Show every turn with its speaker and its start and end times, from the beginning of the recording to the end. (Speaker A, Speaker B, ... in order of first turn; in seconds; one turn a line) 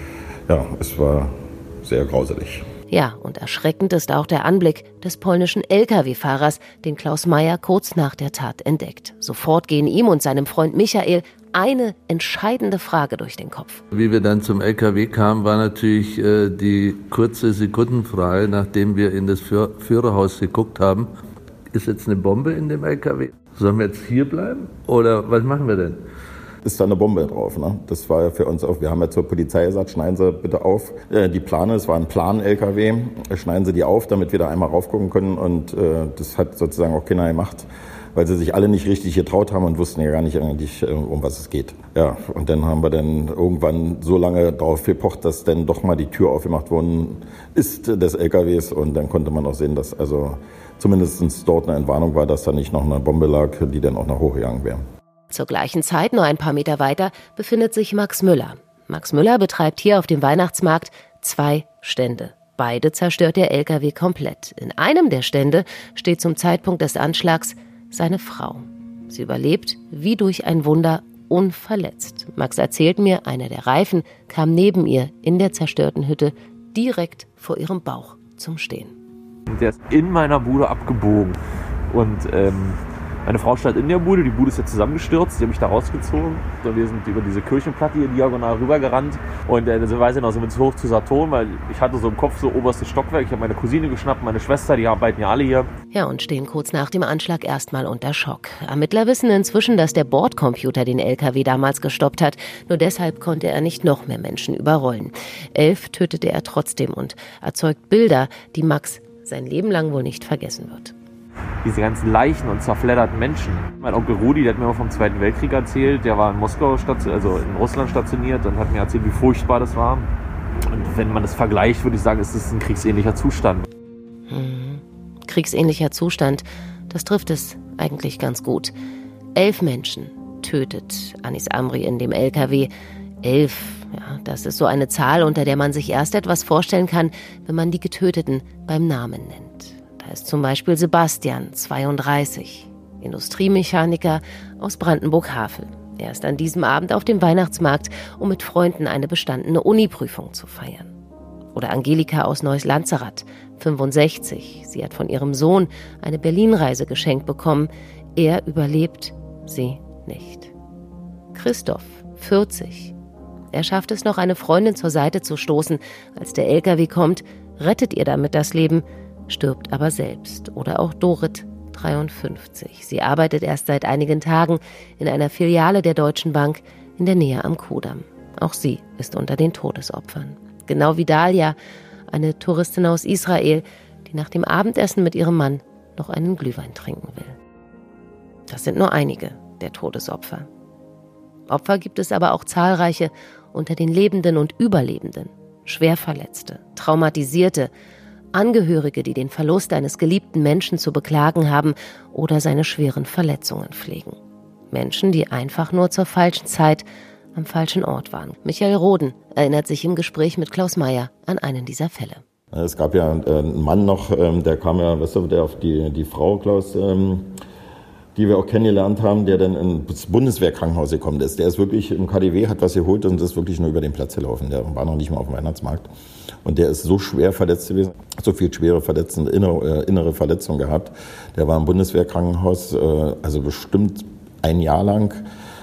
Speaker A: 0.5-2.6
Speaker B: 2.9-13.8
Speaker C: 13.9-21.1
Speaker C: 21.7-26.1
Speaker A: 26.6-54.8
Speaker B: 55.3-79.0
Speaker D: 79.5-81.4
Speaker D: 81.9-95.7
Speaker B: 95.9-111.0
Speaker D: 111.6-120.1
Speaker D: 120.7-123.7
Speaker B: 124.3-128.7
Speaker B: 129.4-132.7
Speaker B: 133.2-150.9
Speaker B: 151.6-160.5
Speaker B: 161.3-162.9
Speaker B: 163.5-181.6
Speaker B: 182.1-187.4
Speaker B: 188.5-190.5
Speaker B: 191.5-197.7
Speaker B: 198.3-204.2
Speaker B: 204.7-212.2
Speaker A: 212.5-217.4
Speaker A: 218.2-225.9
Speaker A: 226.4-235.2